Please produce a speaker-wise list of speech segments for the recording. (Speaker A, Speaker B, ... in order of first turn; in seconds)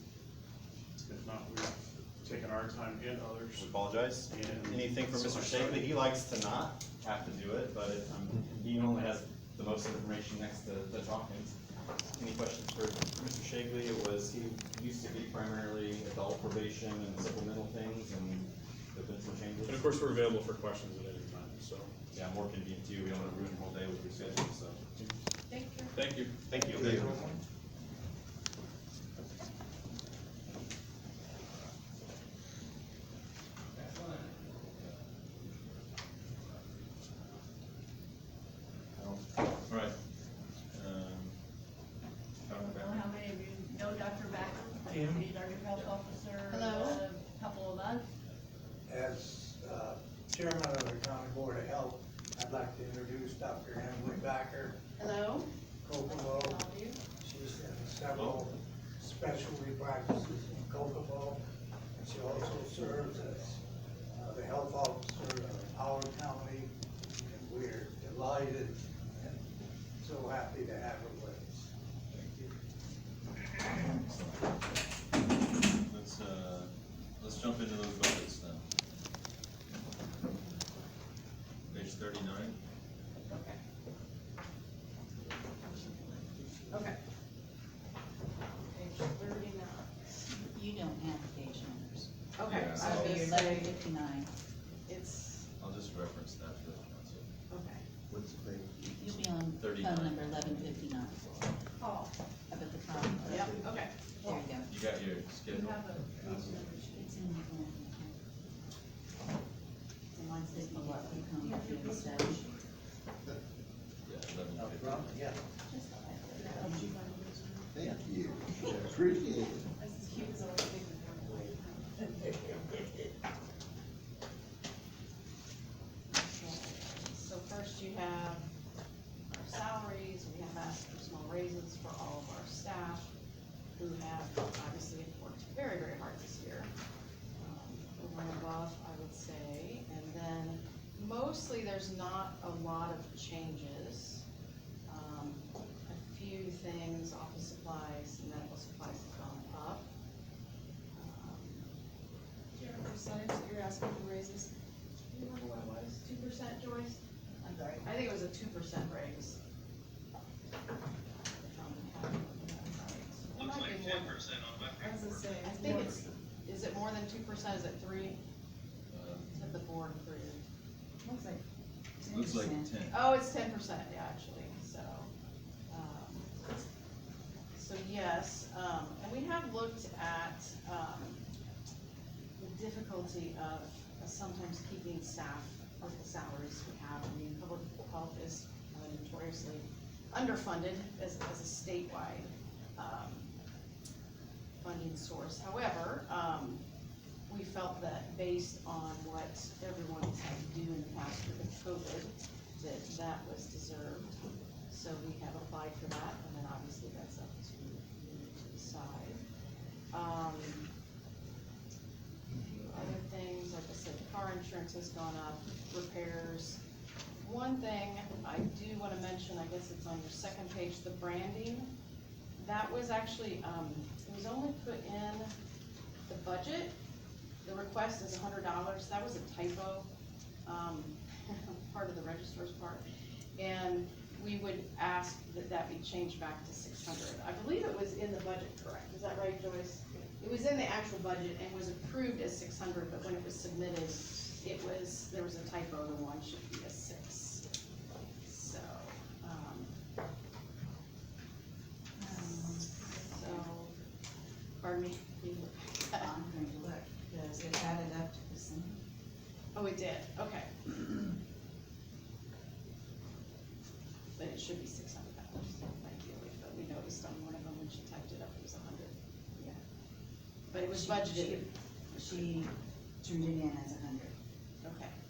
Speaker A: 1.0-1.7, 2.2-3.6, 4.3-5.8, 19.7-21.9, 25.9-26.3
Speaker B: 3.5-11.5, 12.1-19.8, 22.1-24.8, 26.5-27.1
Speaker C: 25.5-25.9, 46.5-47.1, 55.0-55.5, 56.1-57.0, 83.3-83.6, 86.7-87.0, 88.7-89.9, 92.3-93.8, 94.9-95.4, 97.5-97.8, 103.2-103.9, 110.1-111.4, 126.1-128.5, 129.3-133.1, 133.8-136.7, 137.4-144.2, 144.9-149.8, 150.9-151.7, 155.1-157.0, 157.8-159.4, 161.4-164.3, 165.4-168.2, 169.3-170.4, 172.9-175.1, 175.7-176.3, 177.5-181.2, 182.4-193.3, 194.6-196.6, 197.3-204.1, 204.7-209.2, 209.9-210.7, 212.3-216.6, 217.2-221.7, 222.4-225.3, 226.1-226.7, 227.4-229.9, 230.4-232.8, 233.4-247.4, 248.2-249.7, 252.9-253.7, 254.6-256.1, 259.5-260.8, 264.1-269.6, 270.5-271.5, 274.6-274.9
Speaker D: 26.6-27.4, 98.1-99.0, 103.3-103.7, 106.2-106.6, 114.5-115.4, 117.7-119.7
Speaker E: 39.0-40.0, 40.7-41.3, 42.4-43.0, 45.7-46.0, 73.7-74.7, 75.7-78.6, 81.7-82.6, 92.5-93.2, 95.6-97.2, 99.1-100.8, 104.7-106.3, 114.0-115.2, 165.7-166.0, 168.9-169.3, 172.0-173.0
Speaker F: 42.5-48.1, 101.8-102.1, 105.5-107.2, 111.4-112.5, 116.3-118.3, 119.8-123.1, 152.6-154.5, 164.7-166.0
Speaker G: 48.9-54.8, 55.8-56.7, 57.2-61.4, 62.0-63.6, 64.2-69.4, 70.0-72.5
Speaker H: 85.8-86.7, 90.3-94.3, 99.0-101.5, 102.5-103.7, 104.2-104.7, 106.9-108.1, 110.5-112.4, 115.7-117.0, 157.4-157.8, 171.0-171.4, 172.0-172.7, 252.0-253.5, 255.9-258.8, 270.7-274.1